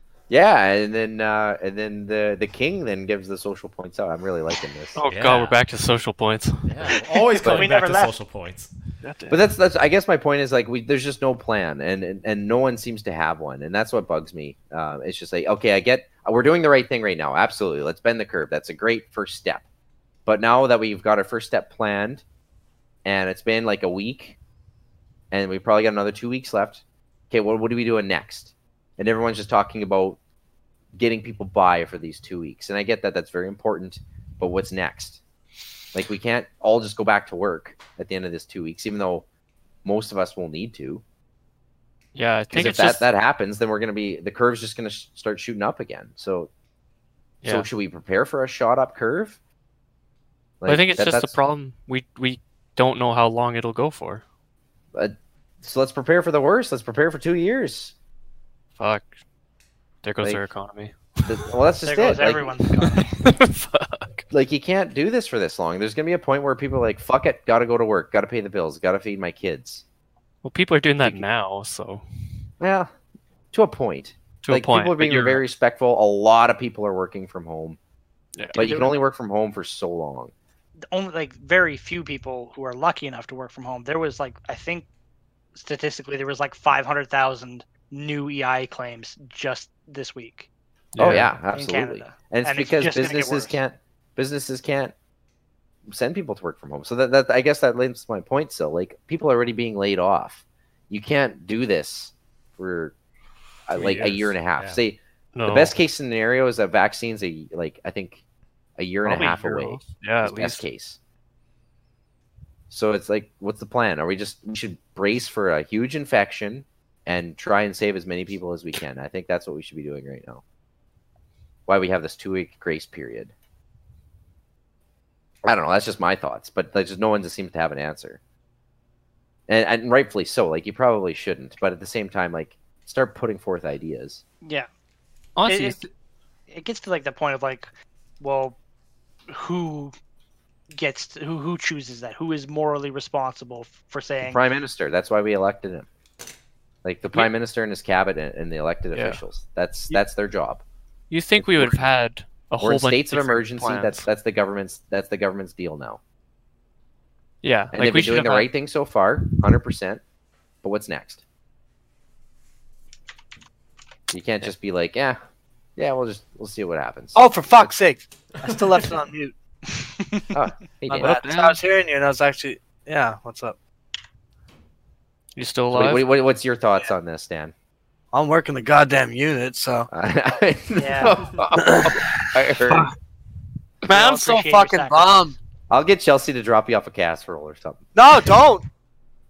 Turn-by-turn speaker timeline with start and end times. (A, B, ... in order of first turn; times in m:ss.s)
0:00.3-0:05.0 A
0:05.0-0:07.0 B
0:05.1-0:05.6 C
0:06.7-0:08.7 C
0:07.4-0:08.2 D
0:09.0-0:09.4 B
0:09.3-0:19.6 A
0:20.3-0:22.2 A
0:23.0-0:24.4 A
0:25.3-0:30.2 A
0:31.0-0:35.2 A
0:35.9-0:39.2 A
0:39.8-0:41.0 A
0:42.2-0:43.1 B
0:42.5-0:46.5 A
0:47.4-0:49.4 A
0:50.6-0:51.3 A
0:50.7-0:54.2 B
0:54.9-0:57.9 A
0:58.8-0:59.2 B
1:00.0-1:01.5 B
1:01.3-1:02.5 A
1:01.8-1:03.1 D
1:02.8-1:04.3 B
1:04.3-1:09.8 A
1:10.4-1:12.0 B
1:12.6-1:12.9 A
1:13.5-1:17.8 A
1:14.4-1:15.4 B
1:18.4-1:18.7 B
1:18.6-1:19.0 D
1:18.6-1:20.3 A
1:20.9-1:24.9 D
1:25.6-1:30.5 D
1:30.9-1:31.3 B
1:31.0-1:34.9 A
1:31.5-1:33.6 D
1:35.9-1:43.0 A
1:43.7-1:48.2 A
1:43.7-1:44.8 C
1:45.4-1:45.8 B
1:48.8-1:51.0 A
1:49.0-1:50.6 B
1:52.7-2:00.4 A
2:01.7-2:03.3 A
2:05.4-2:08.2 A
2:09.5-2:14.2 A
2:14.4-2:14.7 D
2:15.4-2:15.9 B
2:15.5-2:15.8 D
2:16.5-2:18.6 D
2:19.3-2:20.0 D
2:20.7-2:24.4 D
2:24.2-2:25.9 A
2:26.8-2:30.6 A
2:28.9-2:29.2 B
2:31.1-2:34.0 B
2:31.4-2:31.8 A
2:32.6-2:36.0 A
2:37.4-2:38.5 B
2:37.7-2:40.0 A
2:40.6-2:41.2 A
2:44.1-2:45.2 A
2:45.8-2:47.2 A
2:47.2-2:49.3 E
2:50.3-2:51.2 A
2:50.9-2:53.6 E
2:51.0-2:51.6 B
2:55.4-2:56.0 B
2:55.7-2:57.5 A
2:58.1-2:59.9 E
2:59.9-3:02.9 A
3:00.8-3:01.3 D
3:01.6-3:02.9 E
3:03.8-3:05.4 E
3:03.9-3:05.1 D
3:05.7-3:07.8 A
3:08.0-3:08.6 E